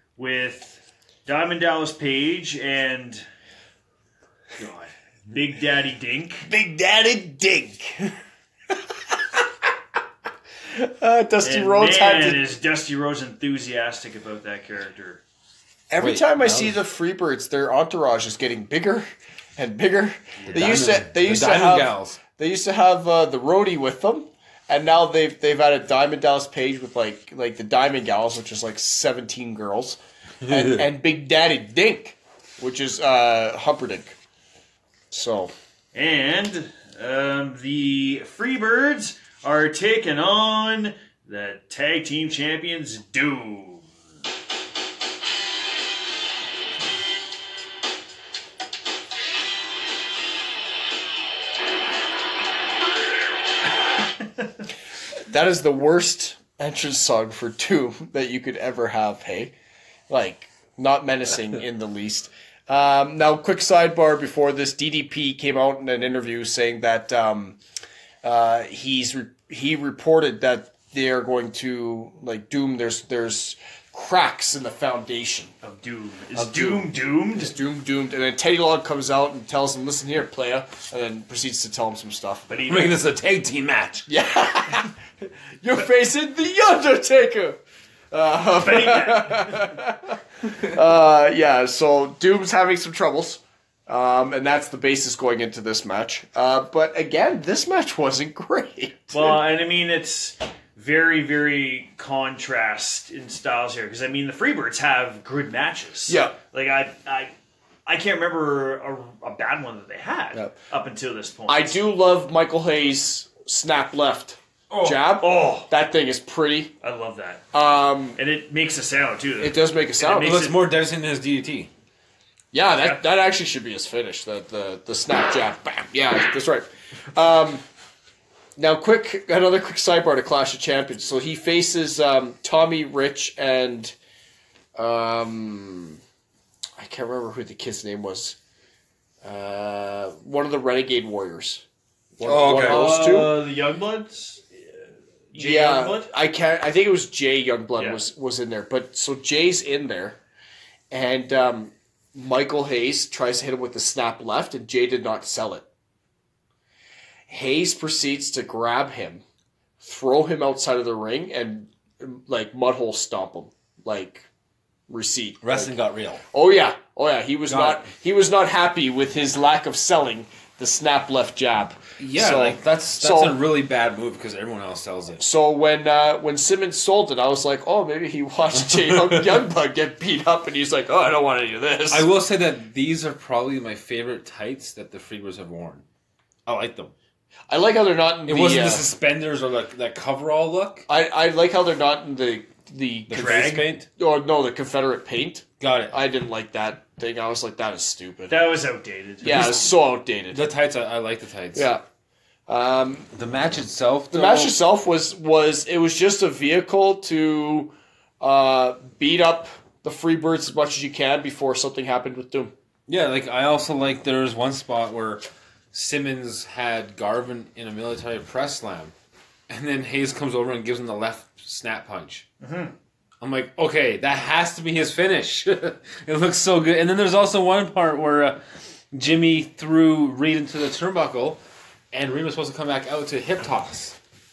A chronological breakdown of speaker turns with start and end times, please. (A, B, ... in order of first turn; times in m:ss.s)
0:00.2-0:03.2 A
0:04.6-0:06.5 A
0:06.5-0:08.2 B
0:09.1-0:09.4 B
0:10.7-0:12.4 B
0:11.4-0:15.2 A
0:15.9-0:34.2 B
0:16.0-0:16.8 C
0:20.4-0:20.8 A
0:20.5-0:22.2 C
0:30.4-0:30.9 C
0:35.1-0:35.5 B
0:35.9-0:43.8 A
0:55.3-0:59.5 B
1:00.1-1:07.6 B
1:08.2-1:15.5 B
1:15.6-1:17.5 A
1:16.4-1:22.5 B
1:22.5-1:23.0 A
1:22.7-1:24.1 C
1:24.1-1:27.6 B
1:28.1-1:39.4 B
1:28.6-1:29.7 A
1:39.1-1:47.3 A
1:46.1-1:46.4 B
1:47.9-1:51.8 A
1:51.5-1:56.7 B
1:54.7-1:55.7 A
1:56.8-1:57.4 A
1:57.5-1:58.2 B
1:58.2-2:00.7 A
1:59.4-2:00.4 B
2:00.1-2:01.7 C
2:02.5-2:07.6 B
2:02.7-2:03.0 A
2:08.6-2:13.9 B
2:14.8-2:16.0 B
2:16.8-2:18.4 B
2:19.2-2:21.6 B
2:22.2-2:23.5 B
2:22.2-2:23.1 C
2:22.4-2:24.5 A
2:25.3-2:26.1 A
2:25.4-2:30.2 B
2:27.8-2:28.0 A
2:30.9-2:35.7 B
2:37.3-2:39.2 B
2:39.8-2:44.3 B
2:44.9-2:45.8 B
2:45.4-2:46.2 C
2:46.3-2:53.4 B
2:47.5-2:47.9 C
2:52.0-2:55.2 C
2:55.2-3:02.1 B
2:58.7-2:59.4 C
3:01.9-3:05.8 C
3:06.5-3:06.9 C
3:07.5-3:08.9 B
3:08.3-3:10.9 C
3:10.9-3:18.4 B
3:13.1-3:13.9 C
3:13.1-3:13.7 A
3:15.6-3:16.0 C
3:18.3-3:19.7 A
3:19.2-3:20.4 B
3:20.3-3:21.7 C
3:21.6-3:21.8 B
3:22.5-3:23.1 B
3:23.1-3:24.6 C
3:24.1-3:32.5 B
3:32.9-3:38.9 C
3:39.5-3:42.3 C
3:42.4-3:42.7 A
3:43.2-3:48.4 C
3:48.9-3:51.4 C
3:51.9-3:54.0 C